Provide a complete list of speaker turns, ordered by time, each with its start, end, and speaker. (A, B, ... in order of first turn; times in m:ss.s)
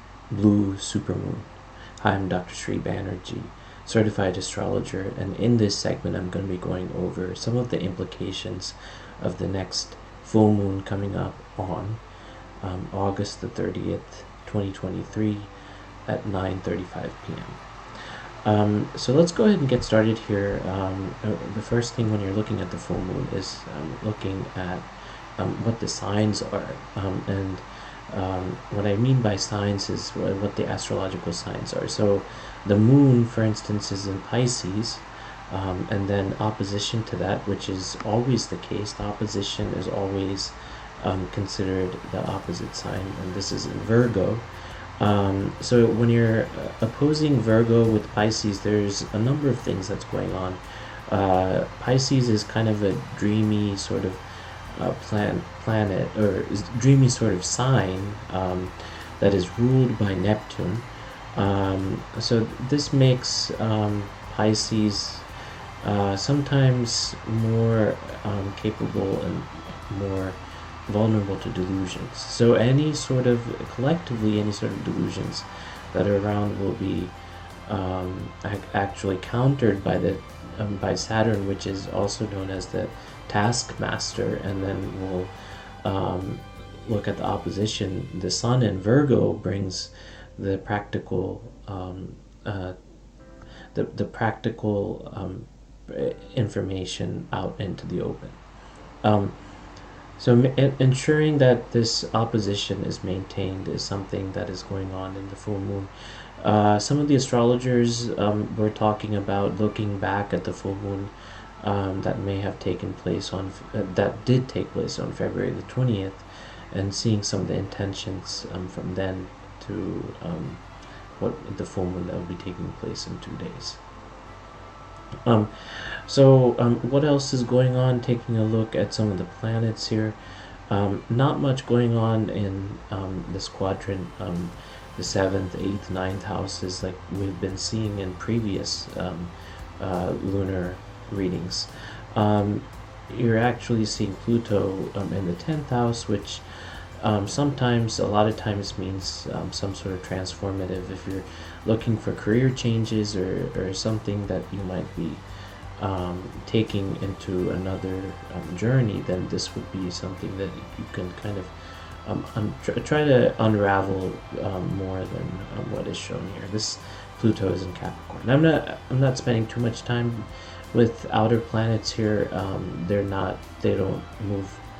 0:00.3-0:12.0 A
0:12.6-0:15.5 A
0:16.1-0:17.6 A
0:18.4-0:24.8 A
0:25.4-0:44.4 A
0:45.0-0:54.2 A
0:54.7-1:05.2 A
1:05.8-1:17.1 A
1:17.6-1:25.3 A
1:25.8-1:32.7 A
1:33.7-1:38.4 A
1:39.0-1:39.4 A
1:40.2-2:00.6 A
2:01.2-2:03.8 A
2:05.2-2:10.2 A
2:10.7-2:26.4 A
2:27.0-2:35.2 A
2:35.8-2:41.5 A
2:42.0-2:54.6 A